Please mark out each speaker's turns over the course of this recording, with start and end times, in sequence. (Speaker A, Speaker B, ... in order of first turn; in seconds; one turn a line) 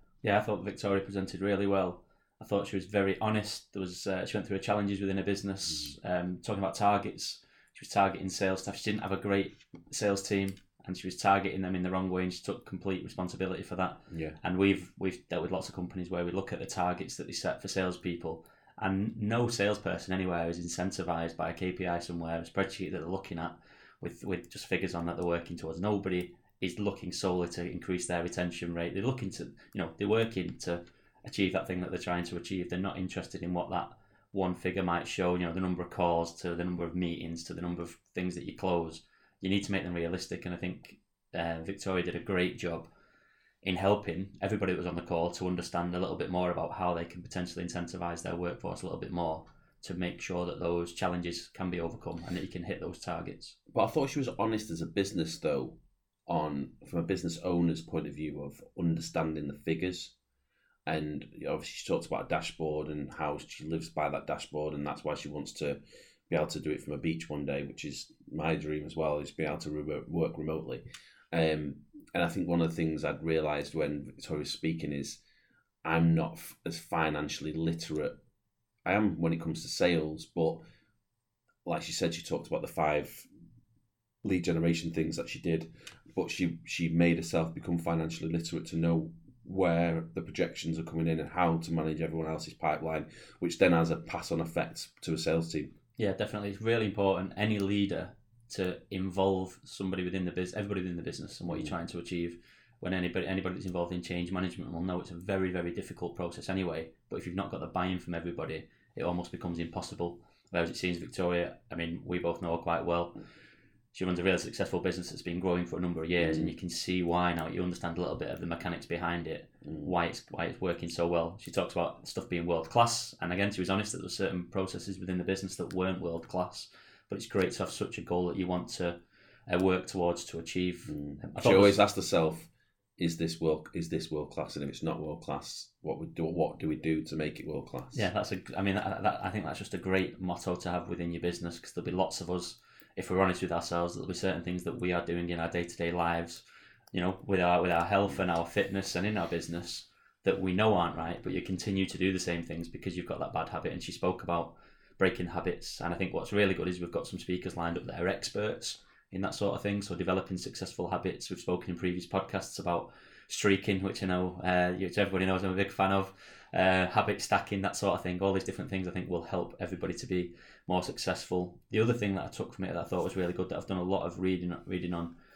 Speaker A: 0.2-42.9
Speaker B: 14.1-14.4
Speaker A: 43.6-53.6
Speaker B: 53.7-60.1
Speaker B: 60.9-75.2
Speaker B: 75.8-78.2
Speaker B: 78.8-80.6
Speaker B: 81.6-83.3
Speaker B: 84.2-95.7
Speaker A: 96.0-113.2
Speaker A: 113.9-129.0
Speaker B: 116.2-116.5
Speaker B: 119.6-119.9
Speaker A: 129.5-131.8
Speaker B: 130.9-138.1
Speaker A: 137.9-146.4
Speaker A: 146.9-175.1